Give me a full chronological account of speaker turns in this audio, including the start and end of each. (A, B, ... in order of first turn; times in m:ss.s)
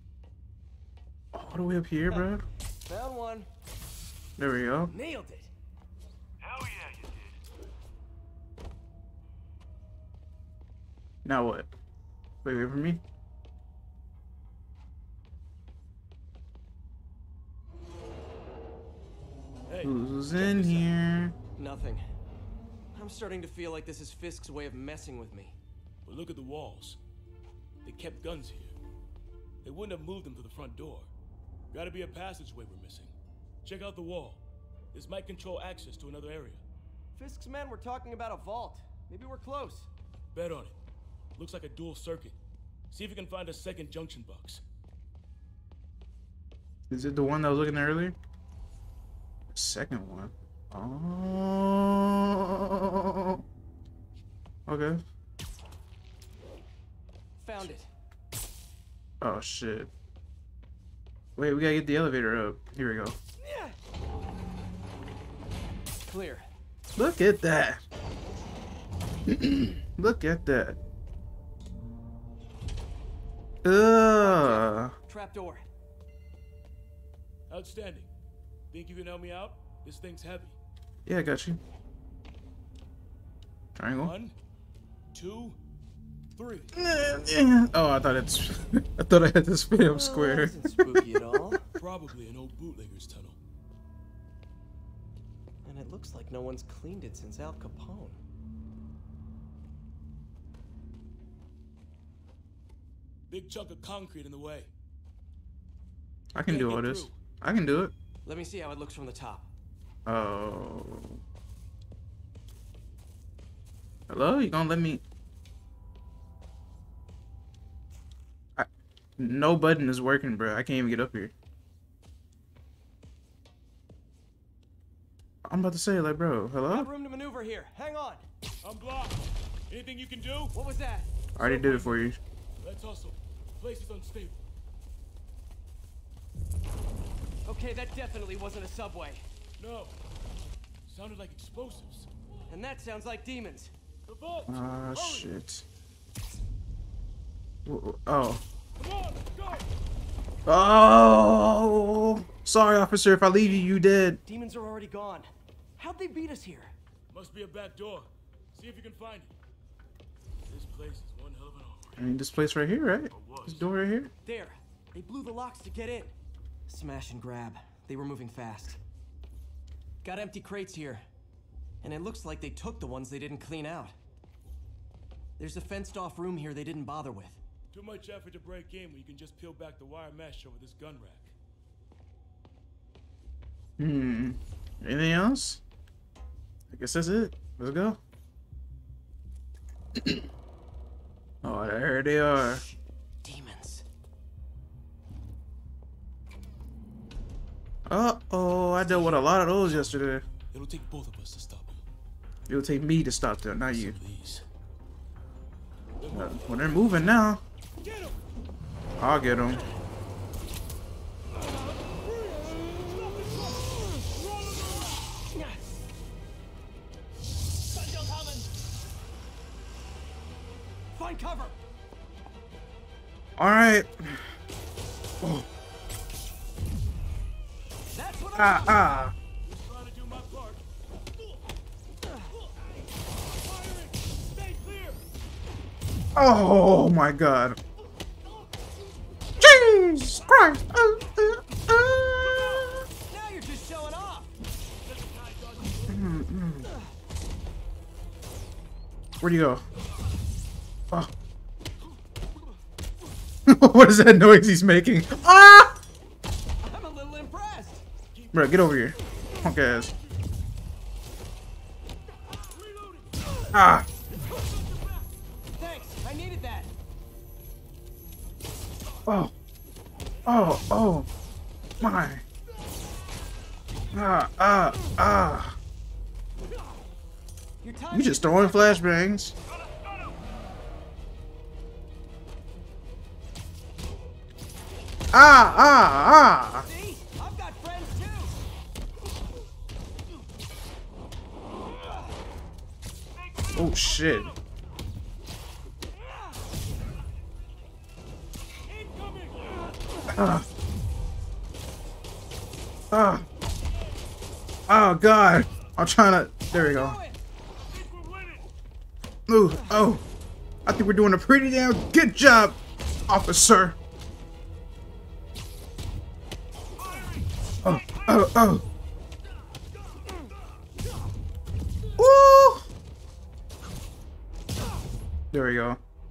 0:01.3-0:02.4 A
0:02.8-0:03.5 B
0:04.4-0:04.9 A
0:04.9-0:05.5 B
0:06.4-0:07.4 C
0:11.2-0:11.7 A
0:12.4-0:13.0 A
0:19.7-0:20.9 C
0:19.8-0:21.4 A
0:21.6-0:22.0 B
0:22.9-0:25.6 B
0:26.0-0:27.0 C
0:27.8-0:28.8 C
0:29.6-0:31.1 C
0:31.7-0:34.4 C
0:34.9-0:36.6 C
0:37.2-0:39.9 B
0:40.3-0:40.8 C
0:41.4-0:42.4 C
0:42.9-0:44.6 C
0:46.9-0:48.2 A
0:49.5-0:53.4 A
0:54.7-0:55.0 A
0:57.4-0:57.9 B
0:59.2-0:59.9 A
1:01.4-1:03.2 A
1:03.4-1:03.8 B
1:06.0-1:06.5 B
1:07.0-1:07.8 A
1:09.3-1:10.8 A
1:13.6-1:14.9 A
1:14.2-1:15.6 B
1:17.5-1:18.1 C
1:18.7-1:20.6 C
1:21.0-1:21.6 A
1:23.8-1:24.1 A
1:24.0-1:24.4 C
1:25.1-1:25.6 C
1:26.4-1:26.7 C
1:26.7-1:31.5 A
1:29.9-1:31.6 B
1:31.8-1:33.4 C
1:35.6-1:38.2 B
1:43.3-1:44.7 C
1:46.3-1:47.9 A
1:46.4-1:47.2 B
1:48.2-1:49.5 B
1:50.0-1:51.2 A
1:54.1-1:55.0 A
1:58.6-2:01.3 A
2:05.4-2:06.9 A
2:06.7-2:08.2 B
2:08.6-2:10.5 C
2:10.5-2:11.1 B
2:11.4-2:12.2 A
2:11.4-2:14.5 C
2:17.4-2:19.2 B
2:19.6-2:20.0 C
2:20.9-2:22.1 C
2:22.5-2:23.7 B
2:24.1-2:25.3 C
2:24.5-2:25.6 A
2:27.6-2:28.4 A
2:28.8-2:29.6 C
2:30.5-2:34.2 A
2:34.2-2:36.7 B
2:37.1-2:39.3 C
2:40.5-2:42.1 C
2:42.0-2:44.1 A
2:43.1-2:43.7 C
2:44.2-2:46.1 B
2:46.7-2:48.8 B
2:50.0-2:51.0 B
2:51.8-2:54.0 B
2:55.4-2:57.4 B
2:57.7-3:01.3 C
3:03.8-3:05.6 A
3:06.7-3:08.0 A
3:10.0-3:10.2 A
3:11.4-3:12.6 A
3:12.4-3:13.8 B
3:17.9-3:20.2 A
3:18.9-3:19.9 C
3:20.5-3:21.8 C
3:22.5-3:24.0 A
3:23.7-3:24.4 C
3:26.0-3:27.0 C
3:26.1-3:27.4 A
3:29.0-3:29.6 A
3:32.1-3:35.1 C
3:32.5-3:33.0 B
3:35.3-3:35.6 B
3:37.8-3:38.4 C
3:40.9-3:41.6 B
3:43.4-3:44.2 A
3:47.9-3:49.0 B
3:48.4-3:49.1 A
3:49.5-3:50.6 C
3:52.3-3:55.0 C
3:56.1-3:57.6 A
3:59.4-4:02.7 A
4:02.0-4:02.8 C
4:03.1-4:04.3 B
4:04.8-4:06.1 C
4:05.8-4:06.7 A
4:06.6-4:06.9 B
4:09.2-4:09.6 A
4:13.5-4:15.8 A
4:16.6-4:17.8 B
4:18.1-4:18.8 C
4:18.3-4:19.9 A
4:22.4-4:23.3 C
4:23.5-4:23.9 A
4:24.3-4:25.0 C
4:25.6-4:26.7 B
4:29.0-4:29.3 A
4:30.2-4:31.1 A
4:31.8-4:32.2 A
4:33.9-4:35.6 A
4:37.6-4:38.8 B
4:37.9-4:39.4 A
4:45.1-4:46.7 A
4:46.6-4:48.4 B
4:53.4-4:54.3 C
4:53.5-4:54.3 A
4:58.8-4:59.6 C
5:00.1-5:00.4 A
5:02.9-5:03.3 A
5:04.7-5:07.0 A
5:06.5-5:07.2 B
5:07.7-5:08.4 C
5:09.3-5:10.0 A
5:09.5-5:09.9 B
5:10.6-5:13.8 A
5:17.6-5:18.6 A
5:22.0-5:22.6 A
5:25.3-5:25.8 A